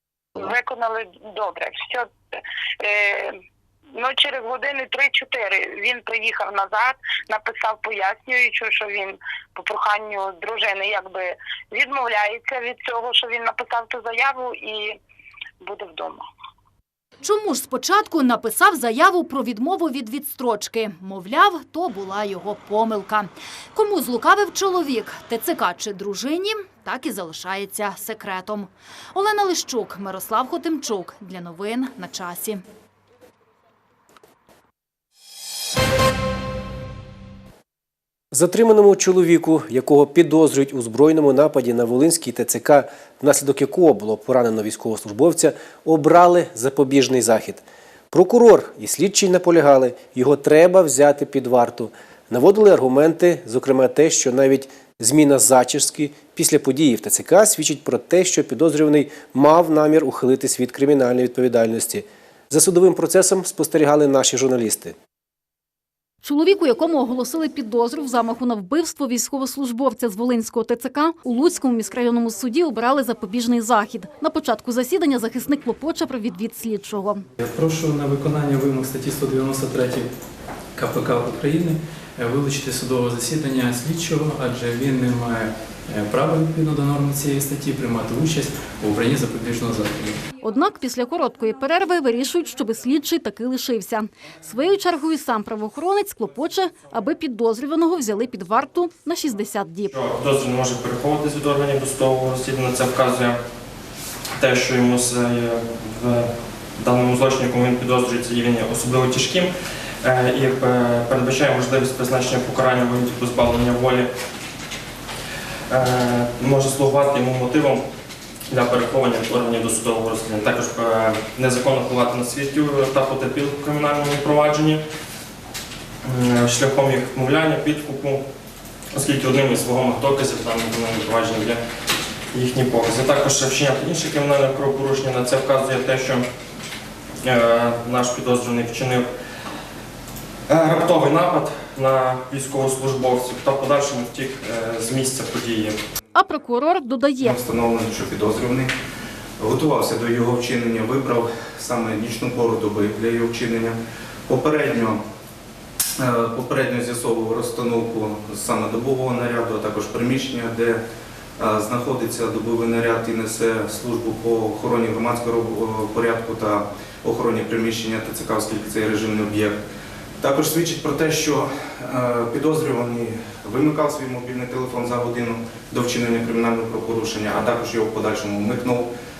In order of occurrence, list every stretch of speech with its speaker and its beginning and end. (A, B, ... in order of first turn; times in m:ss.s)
0:00.4-0:03.4 A
0:04.0-0:15.0 A
0:15.6-0:16.2 A
0:17.2-0:32.6 B
0:38.3-1:05.0 C
1:06.2-1:17.2 D
1:17.4-1:20.1 E
1:20.8-1:30.2 E
1:30.4-1:39.9 D
1:39.9-1:43.4 F
1:44.4-1:49.5 F
1:50.0-1:54.1 F
1:55.7-1:57.8 F
1:58.5-2:04.8 F
2:06.0-2:08.2 F
2:08.9-2:11.6 F
2:12.3-2:16.2 F
2:17.2-2:19.1 F
2:20.5-2:25.8 F
2:26.2-2:27.4 D
2:27.2-2:28.7 G
2:29.4-2:33.8 G
2:34.3-2:35.0 G
2:36.0-2:40.8 G
2:41.4-2:49.6 G
2:50.2-2:58.9 G